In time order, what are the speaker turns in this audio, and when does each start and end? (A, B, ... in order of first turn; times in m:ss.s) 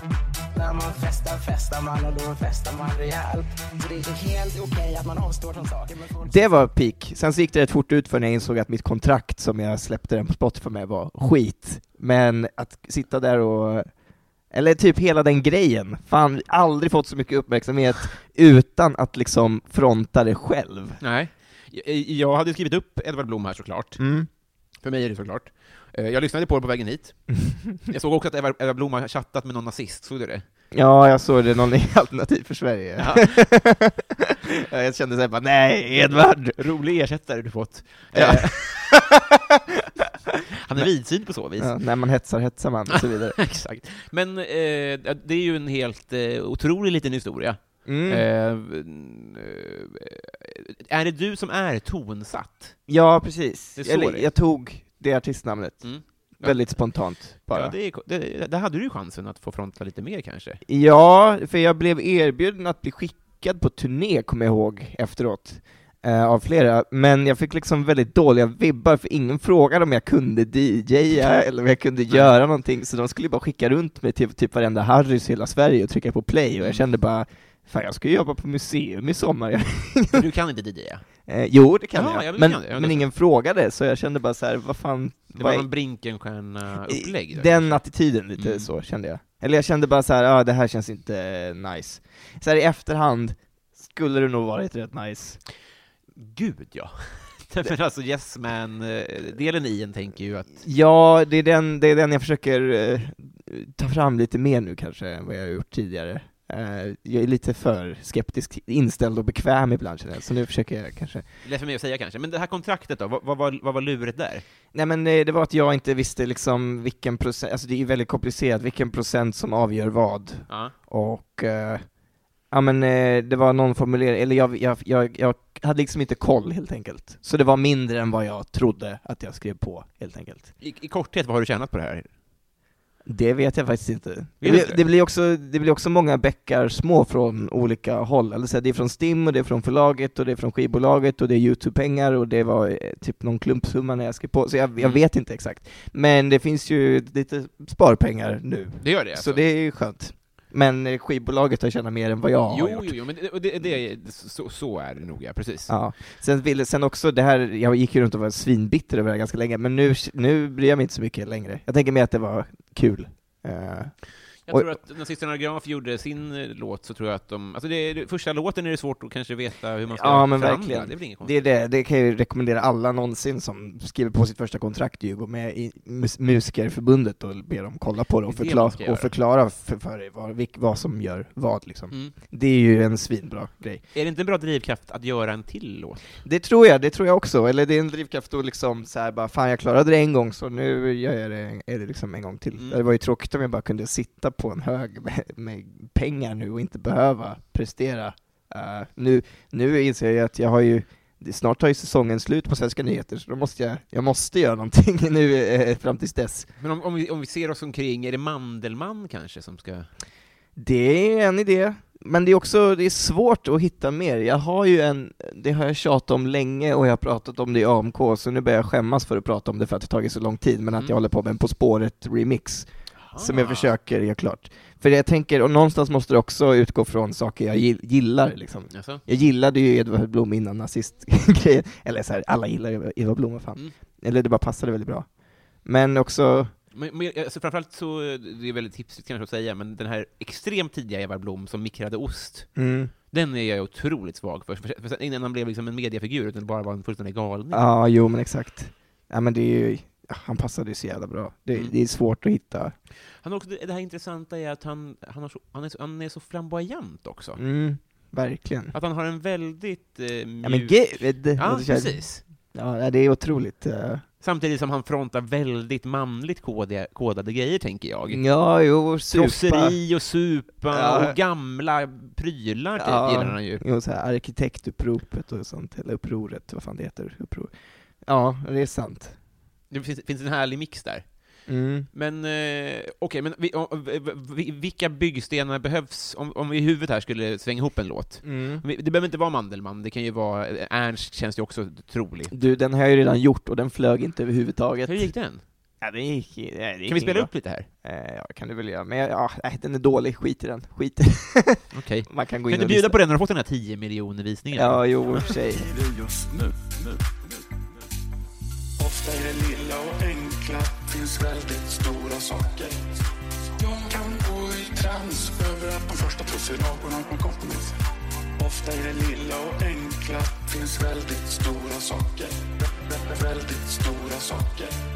0:00.6-0:06.3 A
0:06.2-0:21.0 B
0:21.0-0:30.5 C
0:24.0-0:24.3 B
0:30.7-0:34.1 B
0:33.0-0:33.4 C
0:34.6-0:36.6 B
0:36.0-0:39.0 C
0:38.1-0:39.2 B
0:40.6-0:41.8 C
0:40.7-0:43.4 B
0:43.0-0:52.9 C
0:47.8-0:48.2 B
0:52.9-0:57.8 B
0:53.8-0:54.3 C
0:55.8-1:00.6 C
1:00.7-1:20.3 B
1:16.6-1:16.9 C
1:20.1-1:21.3 C
1:21.3-1:25.7 B
1:21.9-1:23.0 C
1:25.4-1:28.7 C
1:26.9-1:35.4 B
1:36.2-1:40.6 C
1:40.6-1:51.3 B
1:51.4-1:54.4 C
1:54.7-2:10.5 B
2:00.5-2:00.8 C
2:10.6-2:12.1 C
2:13.0-2:33.0 B
2:14.4-2:14.8 C
2:24.8-2:25.0 C
2:28.8-2:29.4 C
2:32.5-2:35.8 C
2:35.7-2:44.7 B
2:44.4-2:51.3 C
2:49.9-3:03.8 B
2:58.3-2:59.1 C
3:03.9-3:06.2 C
3:06.2-3:26.5 B
3:26.6-3:29.9 C
3:30.6-3:56.6 B
3:43.0-3:43.7 C
3:48.7-3:49.0 C
3:56.7-4:07.6 C
4:02.6-4:02.9 B
4:07.5-4:12.8 B
4:13.2-4:17.4 C
4:17.4-4:18.7 B
4:18.7-4:22.2 C
4:20.4-4:24.1 B
4:24.2-4:33.6 C
4:28.1-4:29.8 B
4:30.7-4:31.2 B
4:32.8-4:39.2 B
4:39.7-4:52.3 C
4:41.5-4:41.9 B
4:48.2-4:48.6 B
4:52.3-4:55.1 B
4:54.8-4:55.4 C
4:55.8-5:03.0 B
4:56.9-4:57.7 C
5:01.7-5:05.0 C
5:04.5-5:05.7 B
5:05.4-5:07.0 D
5:08.8-5:12.8 D
5:13.6-5:17.8 D
5:18.4-5:24.8 D